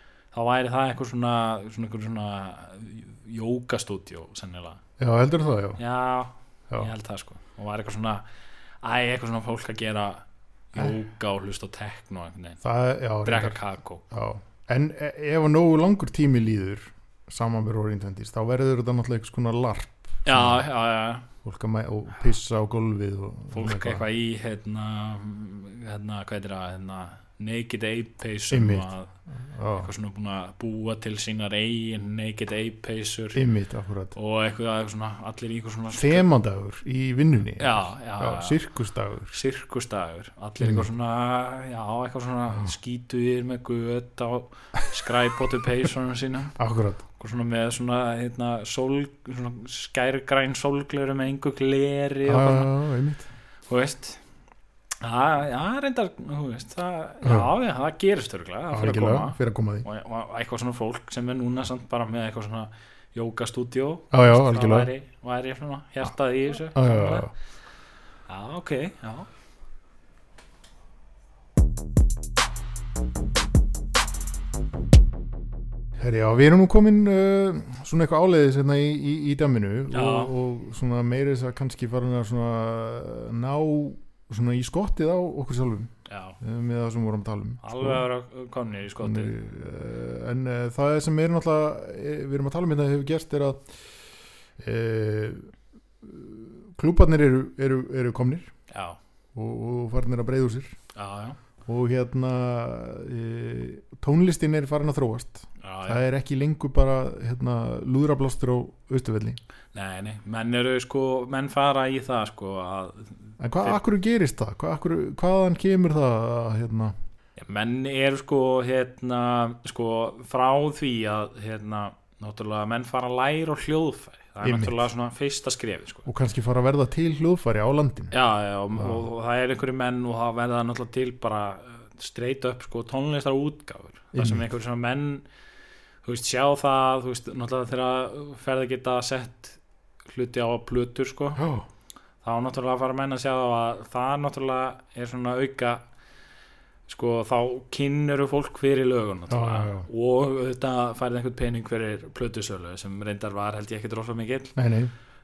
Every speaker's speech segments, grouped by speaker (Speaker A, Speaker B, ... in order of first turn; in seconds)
Speaker A: 0.3-4.8, 5.8-8.2, 8.8-12.6, 13.2-14.0, 20.2-21.2, 23.5-29.1, 29.8-33.4, 34.1-36.2, 37.6-38.6, 39.3-46.5, 47.2-52.7, 53.7-54.2, 55.0-67.3, 68.3-69.3, 79.9-80.3, 86.1-86.4, 87.6-89.3, 98.7-99.0, 100.9-101.4, 105.6-106.0, 109.7-113.8, 117.4-126.0, 128.1-135.2, 136.0-141.5, 142.2-145.8, 146.9-154.5
Speaker B: 5.0-5.8, 12.6-13.6, 14.1-20.6, 21.4-24.0, 28.5-29.9, 33.3-34.1, 35.9-39.3, 40.6-40.9, 46.5-47.0, 52.2-53.3, 57.2-57.5, 58.7-59.9, 64.1-64.9, 66.7-67.3, 76.0-88.0, 89.0-93.7, 94.6-95.5, 96.0-98.5, 99.3-100.7, 101.6-109.4, 113.4-116.9, 124.4-124.8, 126.0-128.1, 128.7-129.0, 134.1-134.5, 149.3-149.9, 154.6-154.9